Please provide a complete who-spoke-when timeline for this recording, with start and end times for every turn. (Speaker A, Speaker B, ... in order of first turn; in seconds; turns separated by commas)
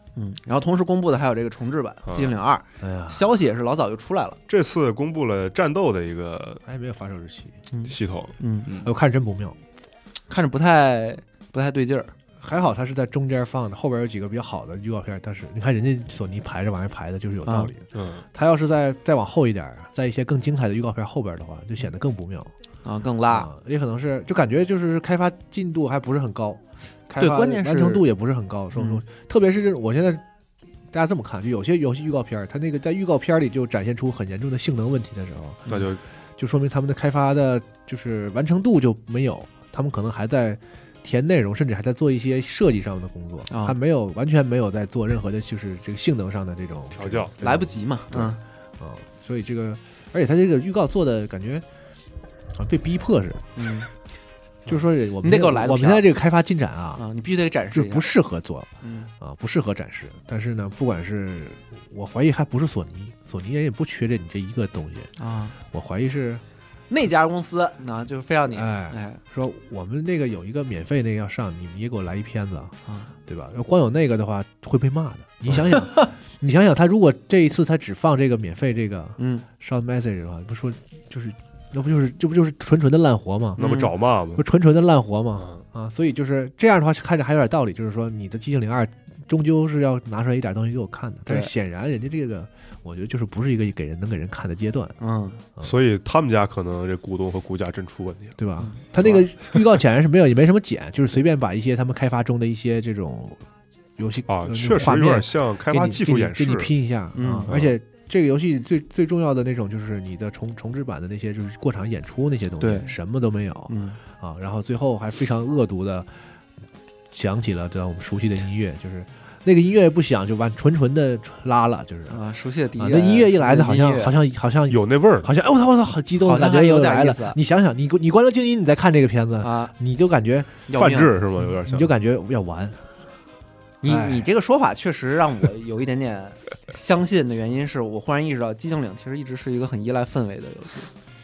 Speaker A: 0.1-4.4, Speaker B: 2.0-2.3, Speaker C: 2.8-3.2, Speaker B: 4.5-6.6, Speaker C: 6.7-7.6, Speaker A: 7.7-8.7, Speaker B: 7.9-8.9, Speaker C: 8.8-9.6, Speaker A: 10.3-12.1, Speaker C: 12.4-22.5, Speaker A: 17.4-17.7, Speaker B: 17.9-18.2, Speaker A: 22.8-23.5, Speaker C: 23.3-30.2, Speaker A: 27.2-28.1, Speaker A: 28.7-29.0, Speaker C: 30.9-35.8, Speaker B: 35.7-36.0, Speaker C: 36.4-51.6, Speaker A: 43.5-43.8, Speaker B: 46.9-47.3, Speaker A: 47.4-48.4, Speaker C: 52.5-53.6, Speaker A: 53.5-53.9, Speaker C: 54.6-57.0, Speaker A: 55.2-56.1, Speaker A: 57.0-58.1, Speaker C: 57.7-65.1, Speaker A: 58.8-59.1, Speaker A: 65.2-65.5, Speaker C: 65.6-66.4, Speaker A: 66.9-69.2, Speaker C: 68.5-83.6, Speaker A: 79.2-79.5, Speaker A: 83.6-83.9, Speaker B: 83.6-84.4, Speaker C: 84.3-95.0, Speaker B: 85.4-85.6, Speaker A: 91.2-91.5, Speaker A: 95.0-95.4, Speaker B: 95.6-98.4, Speaker C: 98.4-103.4, Speaker A: 98.6-99.2, Speaker B: 99.0-99.5, Speaker C: 104.0-116.3, Speaker B: 104.3-106.8, Speaker A: 107.1-107.5, Speaker B: 107.5-107.7, Speaker A: 112.6-112.9, Speaker A: 113.7-114.0, Speaker C: 117.1-122.2, Speaker A: 122.1-124.1, Speaker C: 122.8-130.7, Speaker B: 124.7-125.3, Speaker A: 126.2-127.4, Speaker A: 129.4-129.7, Speaker A: 130.7-131.1, Speaker B: 130.7-131.9, Speaker C: 131.4-132.9, Speaker A: 133.8-140.9, Speaker C: 133.8-134.3